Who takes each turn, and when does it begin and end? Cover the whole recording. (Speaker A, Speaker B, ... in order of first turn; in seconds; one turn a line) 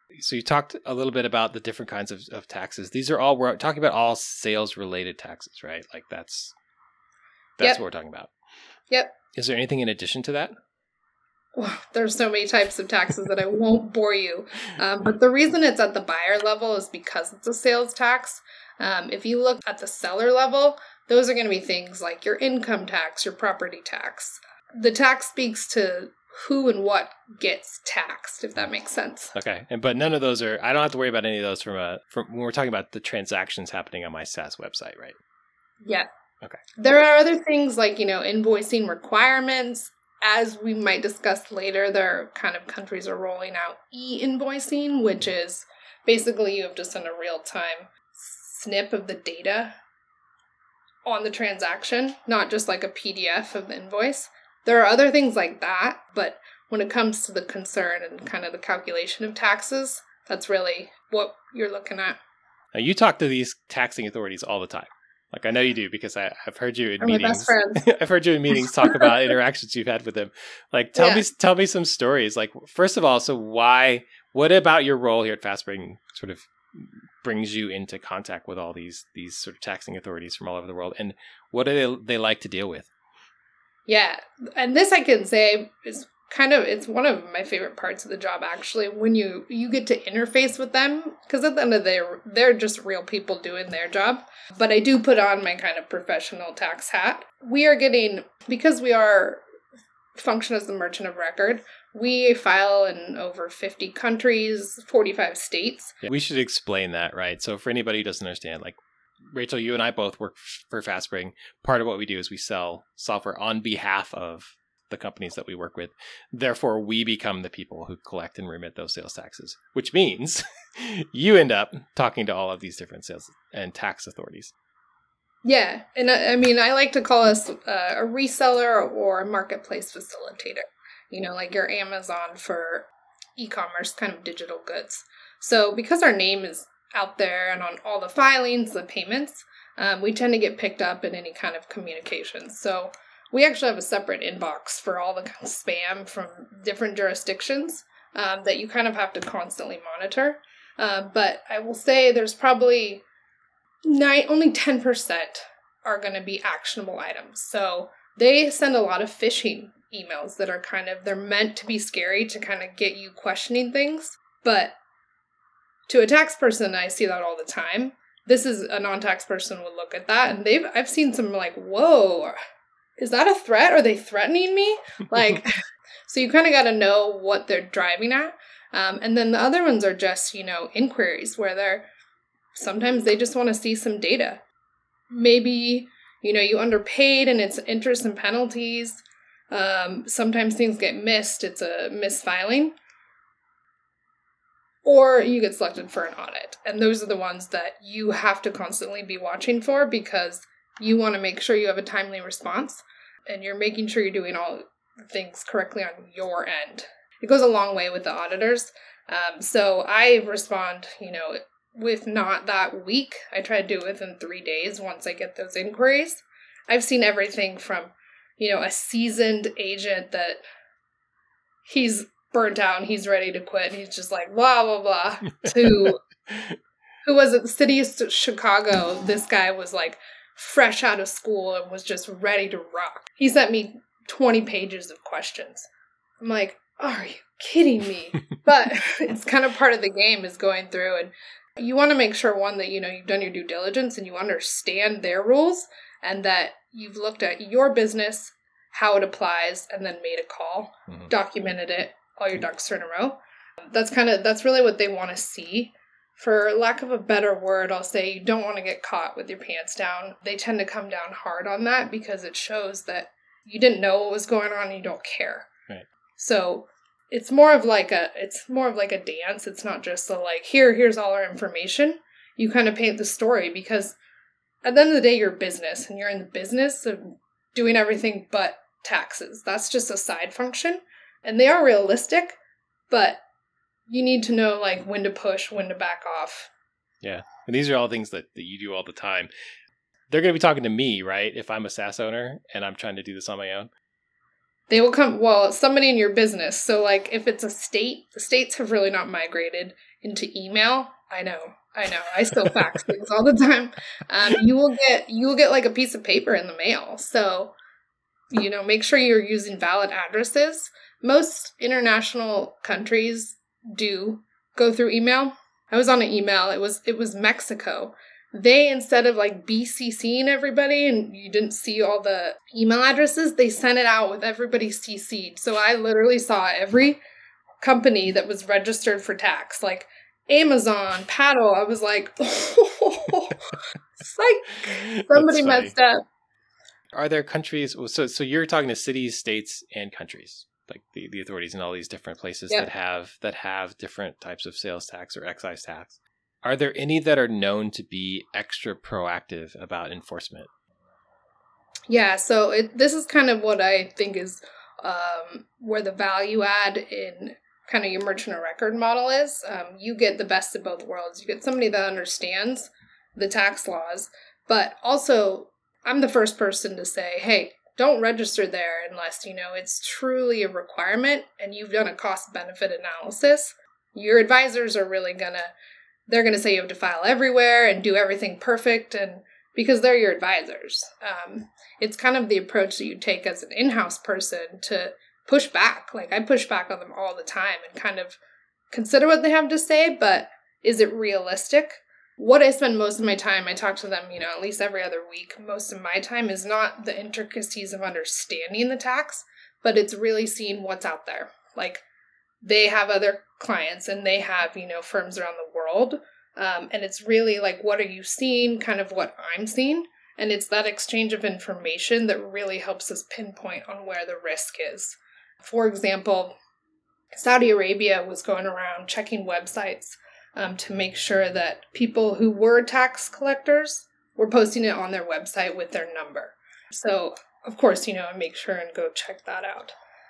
Speaker A: 0.1-6.5
Speaker A: 7.6-8.3
Speaker B: 8.9-9.2
Speaker A: 9.3-10.5
Speaker B: 11.6-29.3
Speaker A: 29.3-35.1
Speaker B: 36.8-49.8
Speaker B: 51.0-62.2
Speaker A: 62.7-82.9
Speaker B: 67.0-67.8
Speaker B: 68.6-69.2
Speaker B: 71.0-71.2
Speaker B: 83.9-99.4
Speaker B: 100.1-106.0
Speaker A: 106.0-124.5
Speaker B: 125.4-153.0
Speaker B: 153.8-164.8
Speaker B: 165.9-172.3
Speaker B: 173.0-181.9
Speaker B: 182.5-184.4
Speaker B: 185.1-192.7
Speaker B: 194.8-220.4
Speaker B: 221.6-226.0
Speaker A: 225.5-226.6
Speaker B: 227.0-235.7
Speaker B: 236.2-253.2
Speaker B: 253.7-265.5
Speaker B: 266.2-273.9
Speaker B: 274.6-282.4
Speaker B: 282.9-283.2
Speaker B: 283.9-286.5
Speaker A: 287.0-289.3
Speaker A: 290.1-293.7
Speaker B: 294.7-307.5
Speaker B: 308.3-327.0
Speaker B: 327.6-333.4
Speaker B: 334.0-336.0
Speaker A: 334.6-335.7
Speaker A: 336.9-350.5
Speaker B: 351.9-375.5
Speaker B: 376.1-388.2
Speaker B: 388.7-401.8
Speaker B: 402.4-416.3
Speaker B: 417.1-429.7